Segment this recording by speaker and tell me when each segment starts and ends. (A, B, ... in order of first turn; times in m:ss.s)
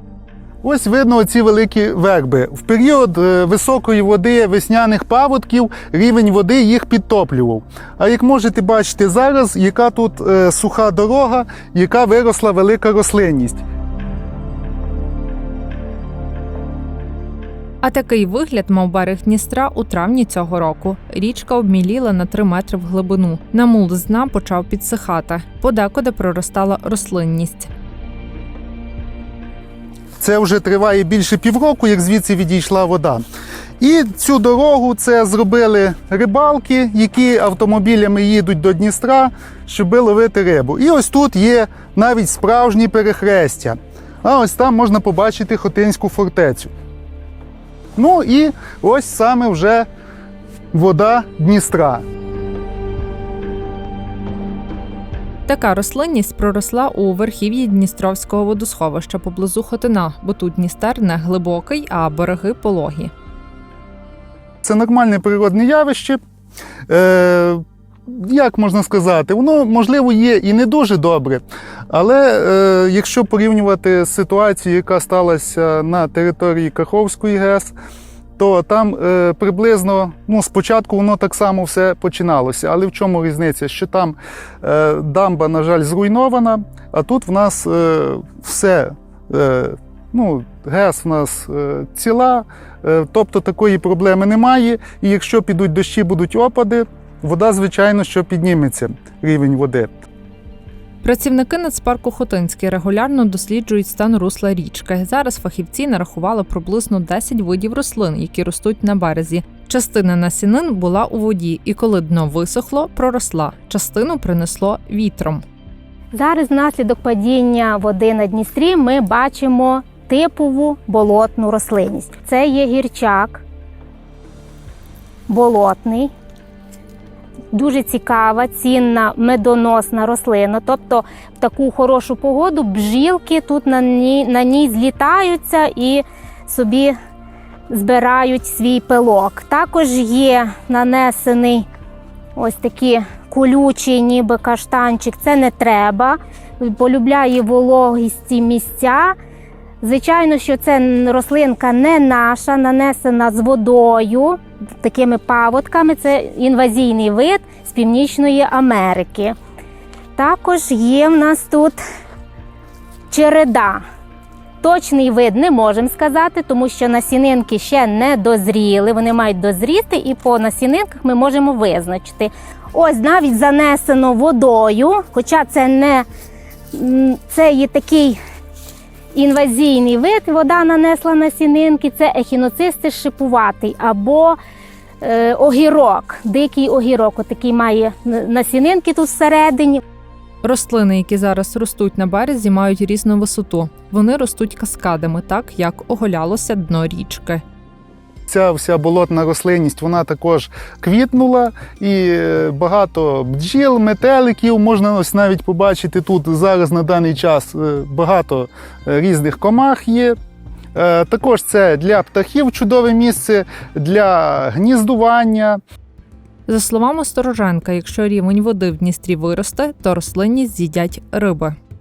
0:00.6-0:13.6 A
0:17.8-0:27.7 B
0:30.2-0:33.2 A
0:33.8-0:46.7 A
0:48.0-0:49.9 A
0:50.7-0:52.0 A
0:55.5-1:03.1 B
1:04.6-1:06.2 A
1:06.9-1:17.7 A
1:18.4-1:39.9 A
1:41.0-1:55.4 B
1:56.1-2:03.4 C
2:05.3-2:06.1 C
2:07.5-2:16.9 C
2:17.7-2:21.6 C
2:22.4-2:29.1 C
2:29.8-2:39.3 C
2:40.2-2:41.8 C
2:43.1-2:43.8 C
2:44.6-2:56.0 C
2:56.7-2:58.2 C
2:59.1-3:04.4 C
3:05.0-3:09.8 C
3:10.4-3:17.4 B
3:18.3-3:30.1 A
3:30.7-3:35.6 A
3:36.5-3:41.6 B